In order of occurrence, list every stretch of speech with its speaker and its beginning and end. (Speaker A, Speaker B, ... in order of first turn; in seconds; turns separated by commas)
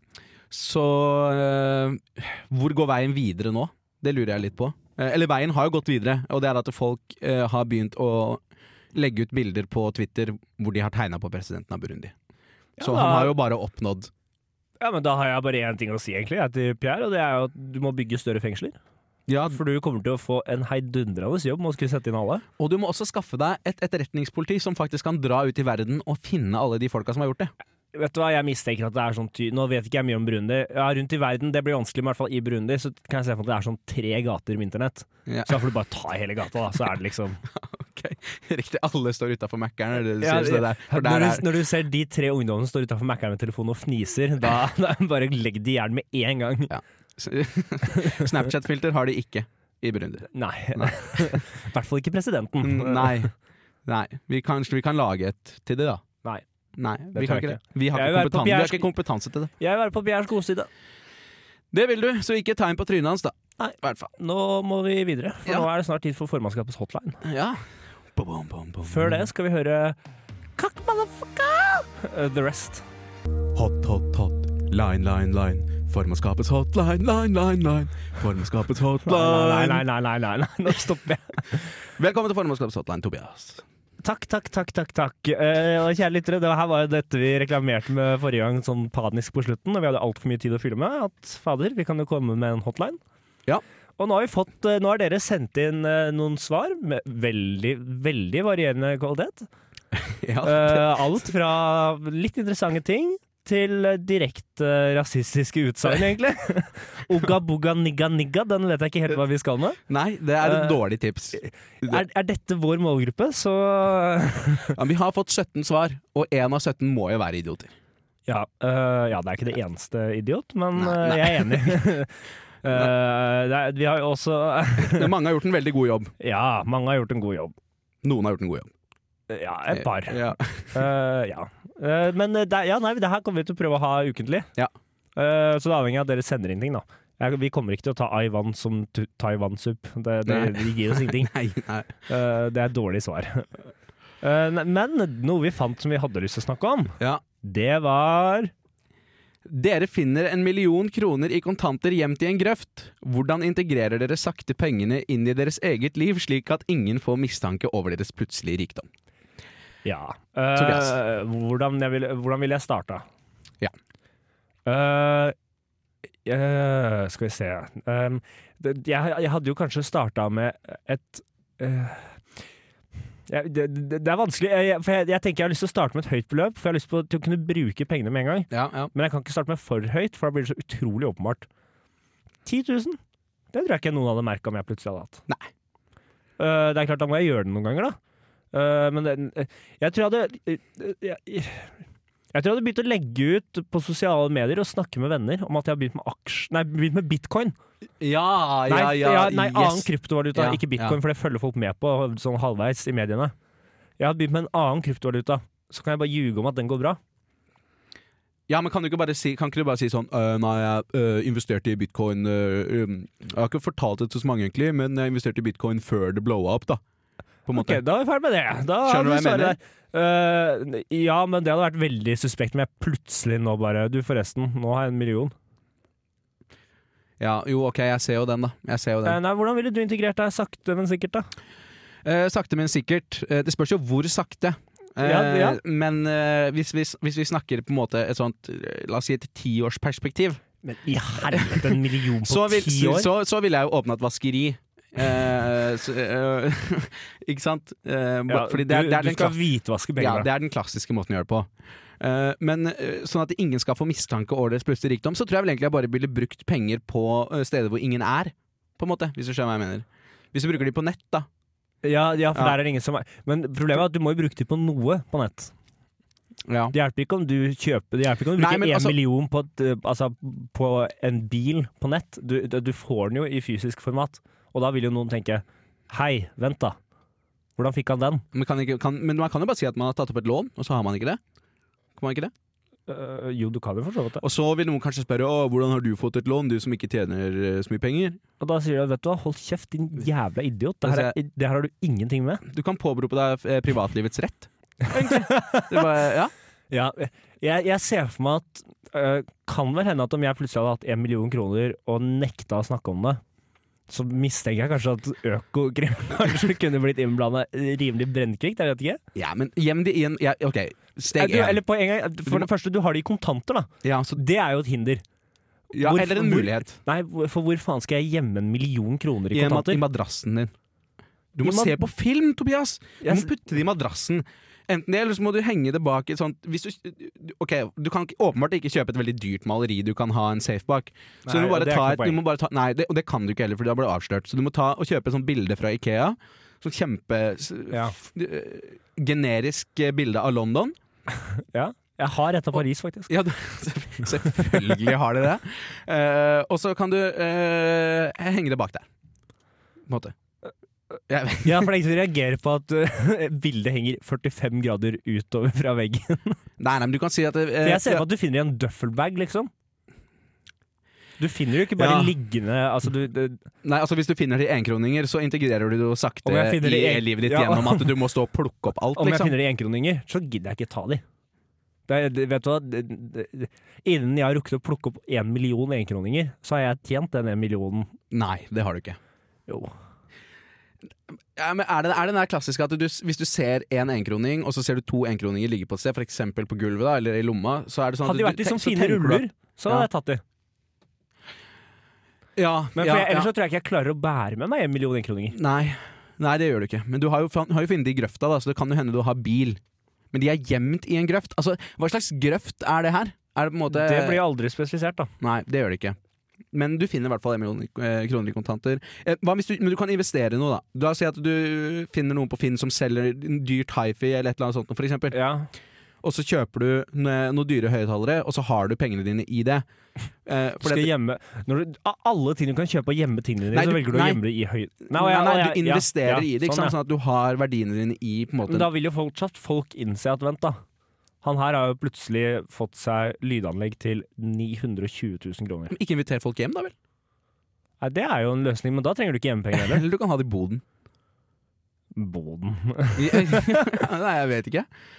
Speaker A: 0.5-8.4, Speaker A: 8.9-12.1, Speaker B: 12.8-13.3, Speaker A: 12.8-14.1, Speaker B: 14.8-18.8, Speaker A: 19.3-19.6, Speaker B: 19.5-22.4, Speaker A: 22.6-27.5, Speaker B: 27.9-37.4, Speaker A: 35.3-35.6, Speaker A: 37.5-41.5, Speaker B: 40.2-46.7, Speaker A: 46.7-51.4, Speaker B: 47.9-48.3, Speaker B: 50.3-53.3, Speaker A: 52.6-53.3, Speaker A: 53.9-56.0, Speaker A: 56.8-59.5, Speaker B: 57.1-58.9, Speaker B: 59.6-60.7, Speaker A: 61.7-64.1, Speaker B: 63.6-67.2, Speaker A: 67.2-67.6, Speaker A: 68.1-69.2, Speaker B: 68.8-70.0, Speaker B: 70.6-72.8, Speaker A: 73.5-79.8, Speaker B: 79.0-81.7, Speaker A: 82.0-83.6, Speaker B: 84.0-93.0, Speaker B: 94.0-99.5, Speaker A: 100.0-101.0, Speaker B: 100.4-109.8, Speaker A: 109.9-112.0, Speaker B: 110.4-110.8, Speaker B: 111.4-114.8, Speaker A: 114.7-117.7, Speaker B: 118.3-125.1, Speaker A: 120.8-121.8, Speaker A: 124.8-126.1, Speaker B: 126.2-127.5, Speaker A: 128.0-128.7, Speaker B: 129.3-134.5, Speaker A: 129.7-130.7, Speaker B: 135.2-141.3, Speaker A: 140.2-141.9, Speaker B: 142.1-143.5, Speaker B: 144.2-148.5, Speaker A: 149.4-158.9, Speaker B: 159.8-163.0, Speaker A: 160.5-160.9, Speaker B: 164.7-165.3, Speaker B: 166.2-172.2, Speaker B: 173.3-181.5, Speaker A: 178.5-178.9, Speaker B: 182.4-183.0, Speaker B: 183.5-185.2, Speaker B: 186.4-187.9, Speaker B: 188.5-191.7, Speaker B: 192.3-197.5, Speaker A: 198.0-201.0, Speaker B: 198.7-203.3, Speaker B: 204.0-207.0, Speaker A: 208.5-216.8, Speaker A: 217.4-217.8, Speaker B: 217.5-225.3, Speaker A: 218.8-219.6, Speaker A: 227.2-229.2, Speaker B: 229.0-231.3, Speaker A: 232.0-240.4, Speaker B: 235.0-235.6, Speaker B: 240.6-243.1, Speaker A: 241.3-249.4, Speaker B: 248.3-250.3, Speaker A: 250.0-261.3, Speaker B: 261.8-265.5, Speaker A: 266.5-266.7, Speaker B: 266.7-276.8, Speaker A: 268.4-268.9, Speaker B: 277.6-278.2, Speaker A: 278.3-281.2, Speaker A: 281.9-282.3, Speaker B: 282.9-284.2, Speaker A: 284.2-288.2, Speaker B: 288.4-292.4, Speaker A: 290.8-291.1, Speaker A: 292.4-296.3, Speaker B: 294.9-295.9, Speaker B: 296.7-303.2, Speaker B: 303.9-309.0, Speaker A: 309.1-311.6, Speaker B: 311.1-315.0, Speaker A: 313.8-314.2, Speaker A: 315.7-316.8, Speaker B: 315.7-319.8, Speaker A: 319.3-320.5, Speaker A: 321.3-340.7, Speaker B: 321.4-321.8, Speaker B: 323.0-323.3, Speaker B: 331.3-332.2, Speaker B: 341.2-343.1, Speaker A: 343.1-348.9, Speaker A: 349.9-350.1, Speaker A: 351.1-351.7, Speaker B: 351.4-356.4, Speaker A: 356.6-358.1, Speaker B: 357.6-359.5, Speaker B: 361.2-363.4, Speaker A: 361.8-362.1, Speaker A: 363.6-369.4, Speaker B: 366.2-367.9, Speaker B: 368.9-371.0, Speaker B: 371.9-377.9, Speaker A: 378.1-379.0, Speaker B: 379.5-379.7, Speaker A: 381.4-389.9, Speaker B: 388.0-390.2, Speaker A: 392.4-393.3, Speaker B: 392.7-395.4, Speaker A: 395.3-399.6, Speaker A: 400.1-404.2, Speaker B: 403.7-405.1, Speaker A: 405.2-406.0, Speaker A: 406.5-415.2, Speaker B: 415.1-415.5, Speaker A: 416.0-419.6, Speaker A: 420.2-420.9, Speaker B: 420.6-426.7, Speaker A: 423.5-424.2, Speaker A: 424.9-428.7, Speaker B: 428.5-430.6, Speaker B: 431.2-435.7, Speaker A: 435.7-436.7, Speaker B: 437.8-439.8, Speaker A: 439.5-440.6, Speaker B: 441.9-443.7, Speaker A: 442.9-444.7